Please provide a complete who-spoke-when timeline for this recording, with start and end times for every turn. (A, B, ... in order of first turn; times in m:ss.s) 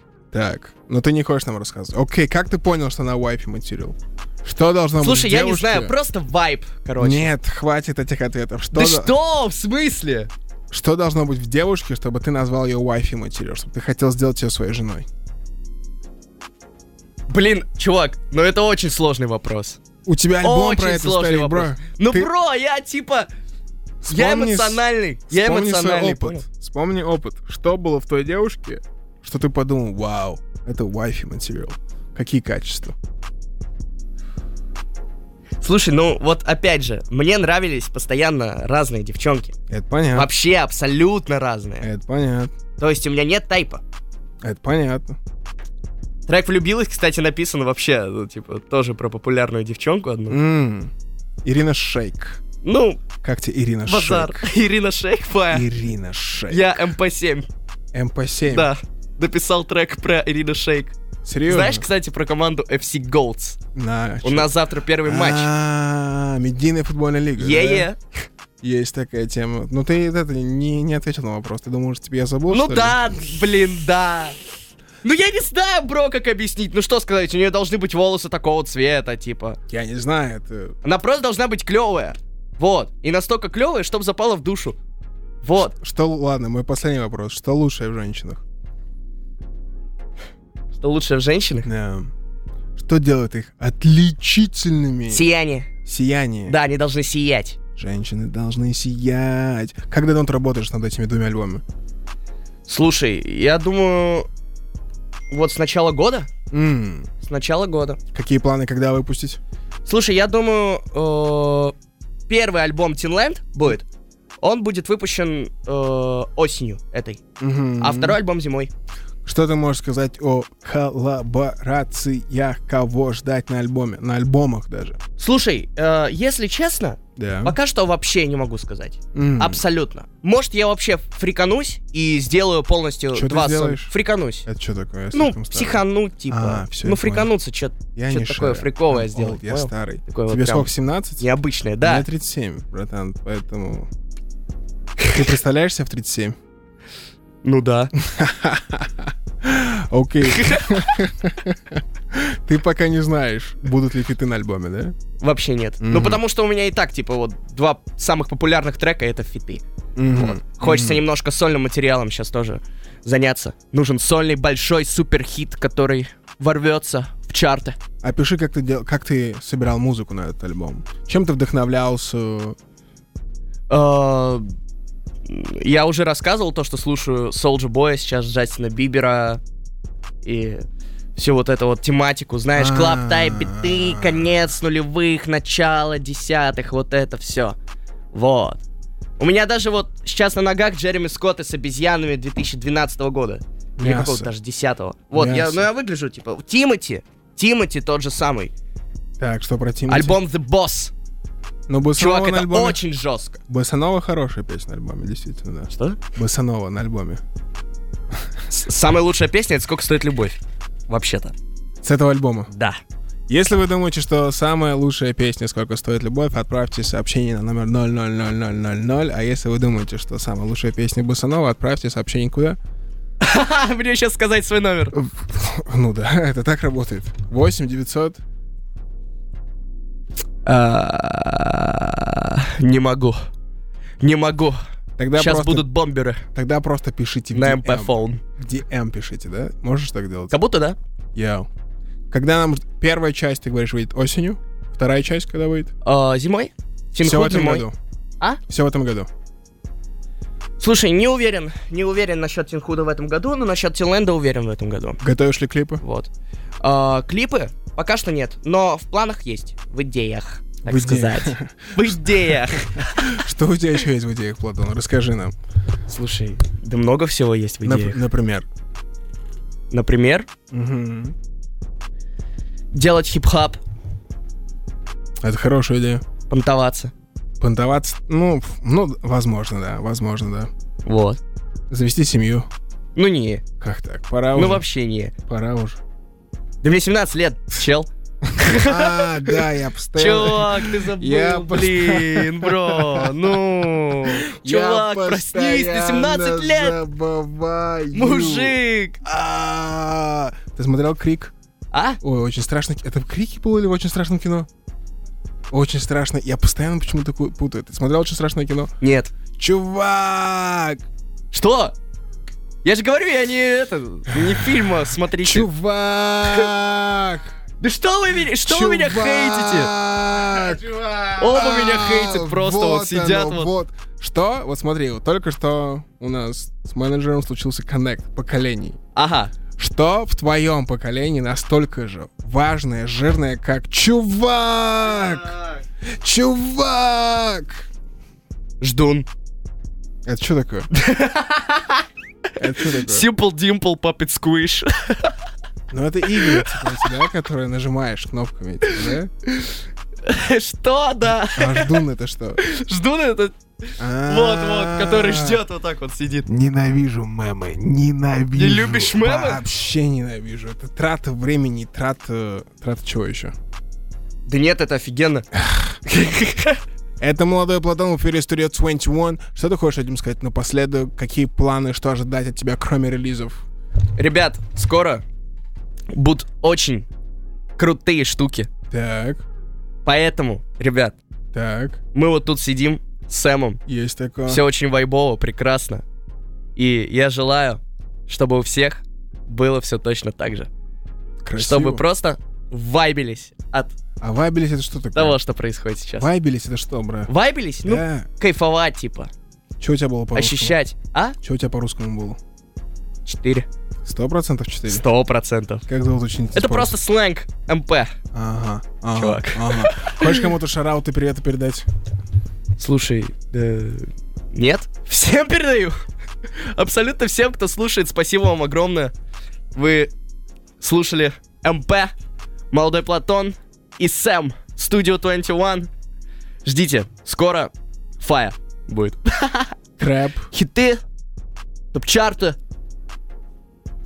0:00.3-0:05.9 A
0:05.0-0:07.3 B
0:07.0-0:09.2 A
0:08.7-0:10.3 B
0:10.7-0:15.1 A
0:17.3-0:19.8 B
0:20.0-0:22.3 A
0:20.4-0:23.3 B
0:24.0-0:32.9 A
0:24.1-0:26.4 B
0:35.6-0:39.5 B
0:39.7-0:40.3 A
0:40.1-0:41.9 B
0:41.8-0:42.5 A
0:42.8-0:43.8 B
0:44.4-0:45.2 A
0:46.3-0:50.4 B
0:50.3-0:50.9 A
0:51.4-0:52.4 A
0:52.6-0:53.0 B
0:53.2-0:54.5 A
0:53.8-0:55.6 B
0:55.5-0:56.8 A
0:56.5-0:57.5 B
0:57.9-0:58.7 A
0:58.5-1:00.9 B
1:01.2-1:01.8 A
1:01.5-1:03.6 B
1:03.7-1:04.5 A
1:04.2-1:05.5 B
1:05.0-1:07.9 A
1:07.4-1:08.0 B
1:08.6-1:13.2 A
1:12.5-1:14.4 B
1:15.0-1:19.6 B
1:19.7-1:20.7 A
1:20.8-1:24.8 B
1:25.4-1:25.7 B
1:25.6-1:28.4 A
1:30.7-1:31.7 B
1:31.6-1:32.1 A
1:32.8-1:35.2 A
1:35.1-1:35.7 B
1:35.8-1:36.6 A
1:36.5-1:37.6 B
1:37.8-1:41.6 A
1:42.7-1:44.3 B
1:45.3-1:46.3 B
1:46.5-1:47.1 A
1:47.2-1:48.0 B
1:48.1-1:49.4 A
1:49.9-1:51.7 B
1:52.3-1:53.9 B
1:54.4-1:57.2 B
1:57.4-1:58.2 A
1:57.8-1:58.7 B
1:59.2-2:05.0 A
2:05.2-2:14.5 B
2:07.2-2:07.6 A
2:09.1-2:09.6 A
2:13.1-2:17.3 A
2:15.1-2:22.0 B
2:17.9-2:21.2 A
2:21.8-2:23.9 A
2:25.1-2:26.4 A
2:27.4-2:27.9 B
2:28.0-2:34.9 A
2:30.3-2:31.0 B
2:35.2-2:39.6 B
2:35.8-2:36.2 A
2:40.0-2:41.0 A
2:40.1-2:47.8 B
2:48.0-2:52.6 A
2:53.7-2:54.5 B
2:55.2-2:59.4 B
3:00.2-3:00.6 B
3:01.2-3:07.6 B
3:02.6-3:04.4 A
3:08.1-3:08.6 B
3:09.2-3:18.5 B
3:13.8-3:14.3 A
3:15.1-3:15.7 A
3:19.2-3:20.2 A
3:19.9-3:20.9 B
3:21.7-3:22.8 A
3:22.0-3:23.4 B
3:23.5-3:27.2 A
3:25.7-3:26.0 B
3:28.5-3:30.4 B
3:30.9-3:31.3 B
3:31.8-3:32.5 A
3:32.5-3:32.8 B
3:33.3-3:42.6 A
3:43.2-3:45.0 B
3:44.9-3:48.2 A
3:50.4-3:53.2 B
3:54.0-3:54.6 B
3:55.0-3:55.7 A
3:55.2-3:56.2 B
3:56.3-4:00.3 A
3:57.3-3:58.2 B
4:00.3-4:00.8 B
4:01.1-4:01.5 A
4:02.1-4:05.7 A
4:05.8-4:07.6 B
4:07.0-4:07.7 A
4:08.5-4:09.1 A
4:10.6-4:15.0 B
4:15.0-4:15.8 A
4:15.8-4:16.1 B
4:16.6-4:23.2 B
4:20.6-4:25.3 A
4:25.9-4:28.0 B
4:27.6-4:28.4 A
4:29.7-4:30.3 B
4:30.5-4:31.1 A
4:32.7-4:33.6 B
4:35.2-4:36.0 A
4:36.3-4:36.9 B
4:37.4-4:40.5 A
4:40.8-4:41.2 B
4:41.7-4:42.5 A
4:43.0-4:43.4 B
4:43.6-4:44.6 A
4:44.3-4:45.1 B
4:45.3-4:45.8 A
4:46.6-4:49.4 B
4:48.4-4:53.4 A
4:50.0-4:56.8 B
4:53.9-5:01.3 A
4:57.9-4:59.0 B
5:01.7-5:02.0 B
5:02.0-5:04.5 A
5:05.5-5:08.7 A
5:08.8-5:09.1 B
5:09.4-5:10.8 A
5:11.3-5:11.7 B
5:12.6-5:15.5 B
5:15.2-5:17.3 A
5:17.6-5:19.7 B
5:18.4-5:28.8 A
5:21.2-5:23.5 B
5:28.9-5:29.3 B
5:29.6-5:37.7 A
5:38.6-5:39.1 B
5:40.0-5:40.7 A
5:40.7-5:41.8 B
5:42.4-5:43.1 A
5:42.8-5:45.1 B
5:45.7-5:49.1 A
5:46.2-5:46.6 B
5:48.6-5:51.8 B
5:51.3-5:52.4 A
5:52.4-5:56.3 B
5:53.8-5:55.4 A
5:56.3-6:03.3 A
5:58.3-5:59.4 B
6:04.3-6:05.2 B
6:05.4-6:05.8 A
6:05.9-6:06.6 B
6:07.0-6:13.4 A
6:14.0-6:15.0 B
6:15.9-6:16.9 B
6:17.6-6:18.5 B
6:18.7-6:19.2 A
6:19.8-6:21.0 B
6:21.3-6:21.8 A
6:21.9-6:23.6 B
6:23.7-6:24.4 A
6:24.3-6:25.8 B
6:26.6-6:30.5 B
6:31.2-6:31.8 A
6:31.4-6:33.7 B
6:34.0-6:35.2 A
6:34.9-6:36.1 B
6:36.0-6:37.1 A
6:37.1-6:39.1 B
6:37.6-6:38.1 A
6:39.6-6:40.6 A
6:40.1-6:41.2 B
6:41.2-6:42.2 A
6:43.0-6:43.5 B
6:43.8-6:44.8 A
6:44.7-6:45.6 B
6:45.7-6:46.7 A
6:46.3-6:47.9 B
6:48.1-6:51.6 A
6:48.9-6:50.2 B
6:52.6-6:55.8 B
6:56.3-6:58.9 B
6:59.5-6:59.9 B
7:00.6-7:01.9 B
7:02.5-7:05.7 B
7:06.4-7:09.6 B
7:09.8-7:10.3 A
7:10.3-7:10.8 B
7:11.7-7:12.4 B